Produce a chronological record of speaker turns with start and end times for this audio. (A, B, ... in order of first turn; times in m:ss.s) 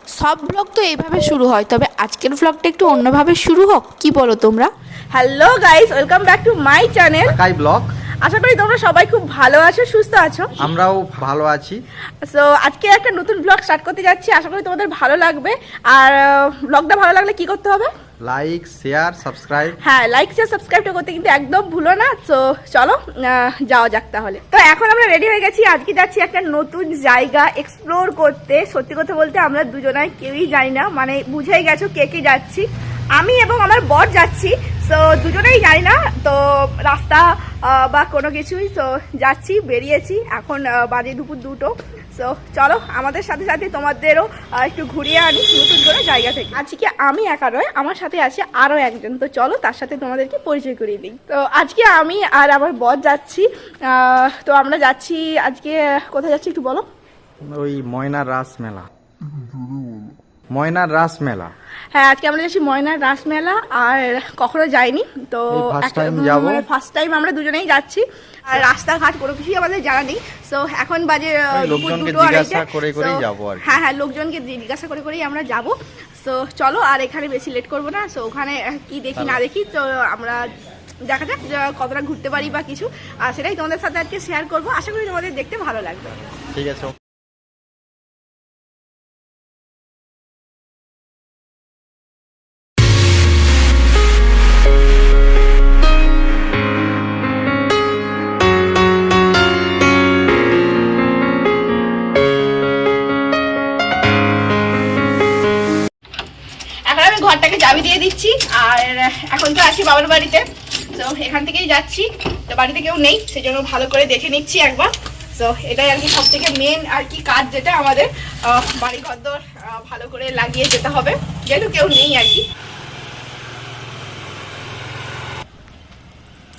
0:00.2-0:04.7 A
0:05.1-0:07.3 B
0:07.4-0:07.9 C
0:08.2-0:10.6 B
0:10.6-0:11.8 C
0:12.2-0:17.9 B
0:18.2-0:19.8 C
0:19.8-0:56.8 B
0:57.6-0:58.9 C
1:00.5-1:01.5 C
1:01.9-1:20.4 B
1:05.5-1:06.6 C
1:11.5-1:13.8 C
1:19.2-1:19.4 C
1:21.0-1:26.1 B
1:26.5-1:26.9 C
1:46.9-2:02.4 B